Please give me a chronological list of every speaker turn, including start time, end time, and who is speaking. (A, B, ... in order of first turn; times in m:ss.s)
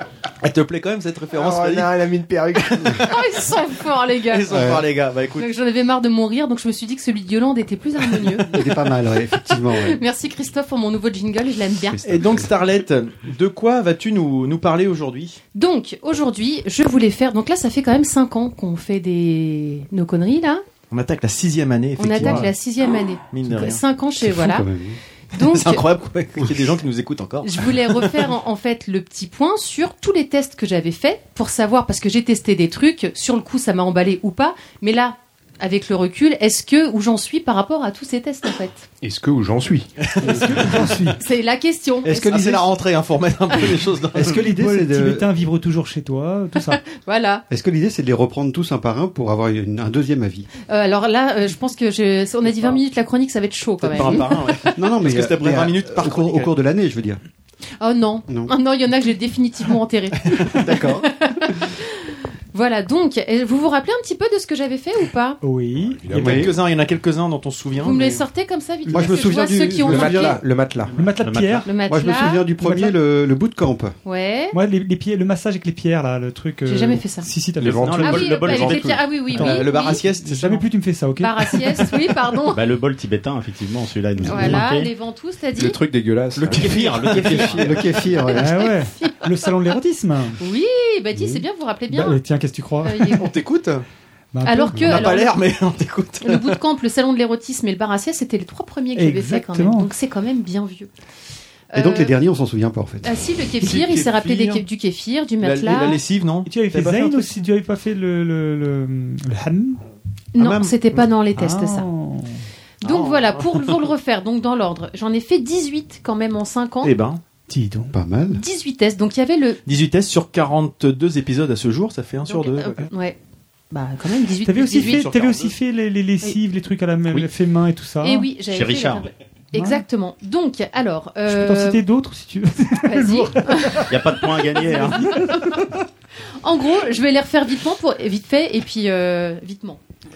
0:00.4-0:03.2 A
0:01.4-0:03.0 B
0:03.0-0:04.7 C
0:04.3-0:05.5 A
0:04.5-0:04.9 D
0:05.4-0:08.7 C
0:08.4-0:10.0 D
0:09.4-0:12.2 C
0:12.0-0:15.4 A
0:12.0-0:12.4 B
0:15.6-0:20.6 C
0:20.9-0:22.5 A
0:22.0-0:24.7 C
0:22.2-0:22.5 E
0:23.2-0:23.8 A
0:24.2-0:25.0 D
0:25.3-0:25.8 C
0:25.4-0:28.1 A
0:27.4-0:38.9 C
0:39.0-0:39.9 B
0:40.1-0:40.9 A
0:40.2-0:41.2 E
0:41.2-0:42.5 C
0:42.0-0:44.4 A
0:42.2-0:42.6 D
0:44.1-0:45.4 D
0:44.3-0:46.8 E
0:46.9-0:47.4 C
0:47.5-0:50.5 D
0:50.7-0:54.7 C
0:53.8-0:56.5 A
0:54.7-0:57.2 D
0:57.8-1:05.4 C
1:00.6-1:00.8 A
1:00.6-1:01.1 D
1:05.4-1:06.5 E
1:06.0-1:06.5 B
1:06.2-1:08.1 A
1:06.2-1:06.5 D
1:07.8-1:10.4 C
1:08.9-1:10.4 D
1:08.9-1:09.2 E
1:09.8-1:10.9 B
1:11.0-1:11.7 F
1:11.0-1:11.8 E
1:11.6-1:12.4 C
1:11.8-1:14.0 D
1:12.6-1:13.0 E
1:14.0-1:14.6 C
1:14.5-1:18.8 E
1:16.7-1:17.3 C
1:17.6-1:19.1 F
1:17.6-1:18.9 B
1:18.0-1:20.0 C
1:19.3-1:22.0 E
1:19.3-1:20.7 A
1:21.2-1:22.6 C
1:22.5-1:24.9 F
1:24.2-1:25.8 C
1:25.6-1:27.6 B
1:26.4-1:27.9 F
1:26.5-1:27.7 A
1:27.5-1:28.6 D
1:28.2-1:29.3 C
1:28.3-1:30.4 E
1:30.4-1:32.2 C
1:31.2-1:31.4 D
1:31.9-1:33.3 E
1:32.8-1:33.3 C
1:33.2-1:33.8 A
1:34.3-1:35.1 E
1:34.4-1:35.4 C
1:34.7-1:36.6 A
1:36.2-1:40.9 C
1:39.0-1:39.9 E
1:41.7-1:42.2 C
1:41.7-1:43.1 D
1:43.0-1:46.0 C
1:43.6-1:44.6 A
1:45.4-1:47.4 A
1:46.5-1:49.8 E
1:50.4-1:51.9 C
1:50.4-1:51.1 A
1:51.4-1:52.4 E
1:52.8-1:56.9 C
1:52.8-1:53.8 A
1:56.8-1:57.2 A
1:57.5-1:57.9 E
1:57.9-1:58.4 D
1:58.3-1:59.6 C
1:59.7-2:02.8 A
2:02.3-2:03.2 C
2:03.7-2:05.1 C
2:04.4-2:08.3 E
2:05.1-2:05.5 F
2:08.0-2:11.8 C
2:08.5-2:09.1 F
2:09.6-2:09.8 E
2:11.3-2:15.8 E
2:12.8-2:13.9 C
2:13.9-2:15.2 F
2:16.4-2:19.8 C